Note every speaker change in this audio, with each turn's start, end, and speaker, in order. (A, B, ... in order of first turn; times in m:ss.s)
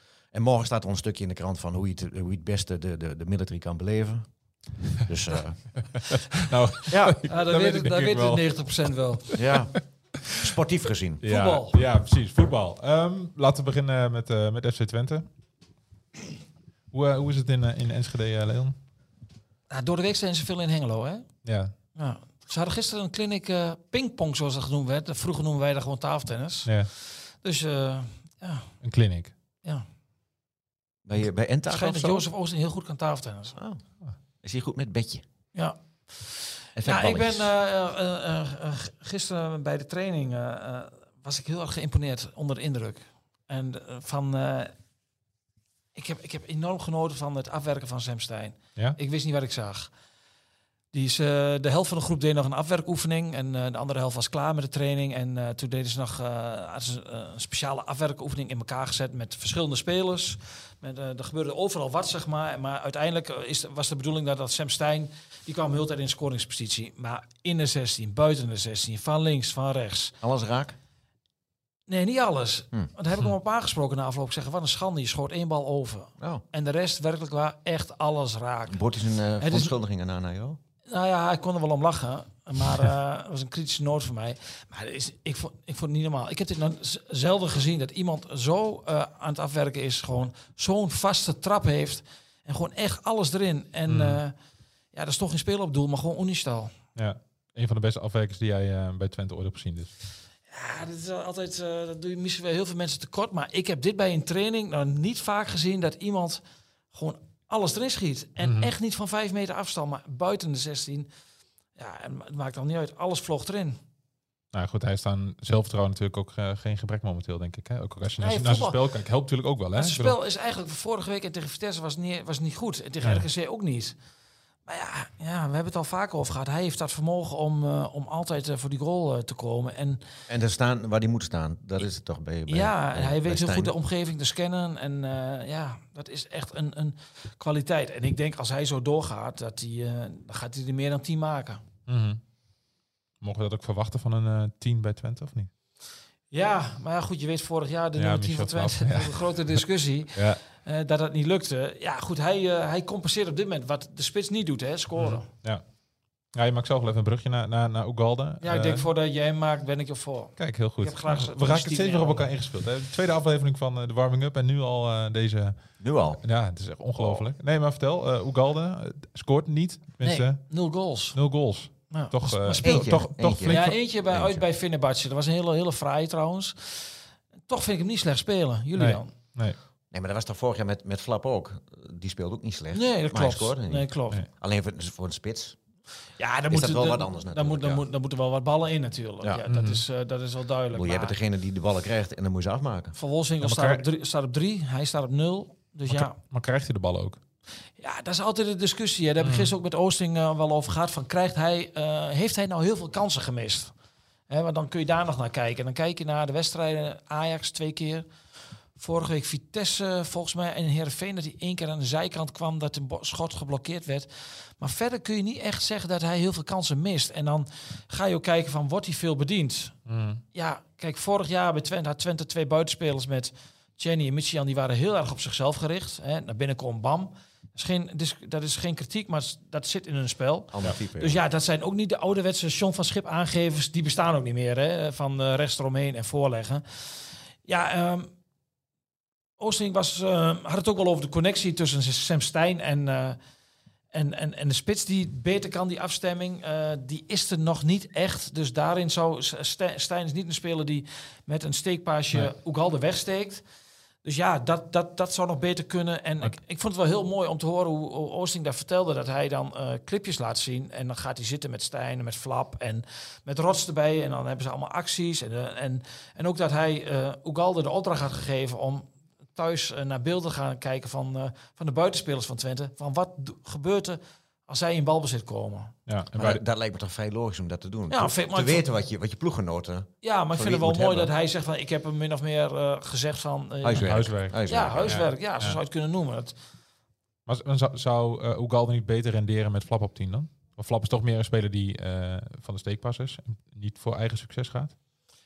0:00.3-0:04.3 A
0:05.0-0:05.6 A
0:05.9-0:08.6 B
0:06.9-0:07.2 A
0:07.3-0:09.4 C
0:09.3-0:09.6 B
0:09.3-0:09.8 A
0:10.3-0:11.2 A
0:11.2-0:15.2 B
0:11.2-0:11.8 C
0:16.9-0:18.8 B
0:19.7-0:21.3 C
0:21.4-0:21.7 B
0:22.0-0:28.7 C
0:28.8-0:29.3 B
0:31.0-0:32.2 A
0:31.7-0:33.6 C
0:33.6-0:33.8 A
0:34.4-0:35.2 A
0:35.5-0:44.7 C
0:36.8-0:37.5 A
0:45.9-0:49.9 C
0:50.9-1:10.1 C
1:10.2-1:10.8 A
1:11.9-1:18.8 C
1:18.7-1:20.6 A
1:19.4-1:19.8 C
1:20.9-1:34.4 C
1:33.9-1:34.2 B
1:34.9-1:36.7 C
1:37.0-1:39.9 B
1:40.5-1:46.4 C
1:46.9-1:51.1 C
1:48.4-1:48.7 B
1:51.8-1:53.8 C
1:54.5-2:00.2 B
1:58.2-1:58.8 C
1:59.8-2:04.0 C
2:04.6-2:10.0 C
2:10.3-2:13.7 A
2:12.5-2:21.6 C
2:21.9-2:22.2 B
2:23.2-2:25.5 B
2:26.3-2:35.2 C
2:28.0-2:29.6 B
2:35.0-2:35.6 B
2:36.3-2:38.8 B
2:38.4-2:42.2 C
2:40.4-2:45.6 B
2:45.8-2:46.2 A
2:46.2-2:50.4 B
2:47.0-2:47.2 A
2:50.0-2:51.2 C
2:51.1-2:53.8 B
2:51.9-2:57.0 C
2:52.6-2:54.4 A
2:57.5-2:59.1 C
2:58.8-2:59.6 B
2:59.9-3:05.6 A
3:02.7-3:04.2 C
3:06.2-3:11.2 C
3:06.5-3:07.8 A
3:09.5-3:09.8 B
3:10.7-3:13.0 A
3:13.0-3:16.1 C
3:13.4-3:13.8 B
3:15.9-3:17.2 B
3:17.8-3:23.7 C
3:19.2-3:19.5 B
3:24.3-3:28.1 C
3:28.8-3:39.8 C
3:39.9-3:40.2 B
3:40.3-3:58.1 C
3:50.5-3:51.2 A
3:59.4-4:03.2 C
4:03.9-4:13.4 C
4:14.0-4:35.7 C
4:35.9-4:36.4 B
4:36.1-4:41.1 A
4:37.9-4:38.7 C
4:40.0-4:46.3 C
4:43.6-4:45.0 A
4:43.8-4:45.6 B
4:47.2-4:54.7 B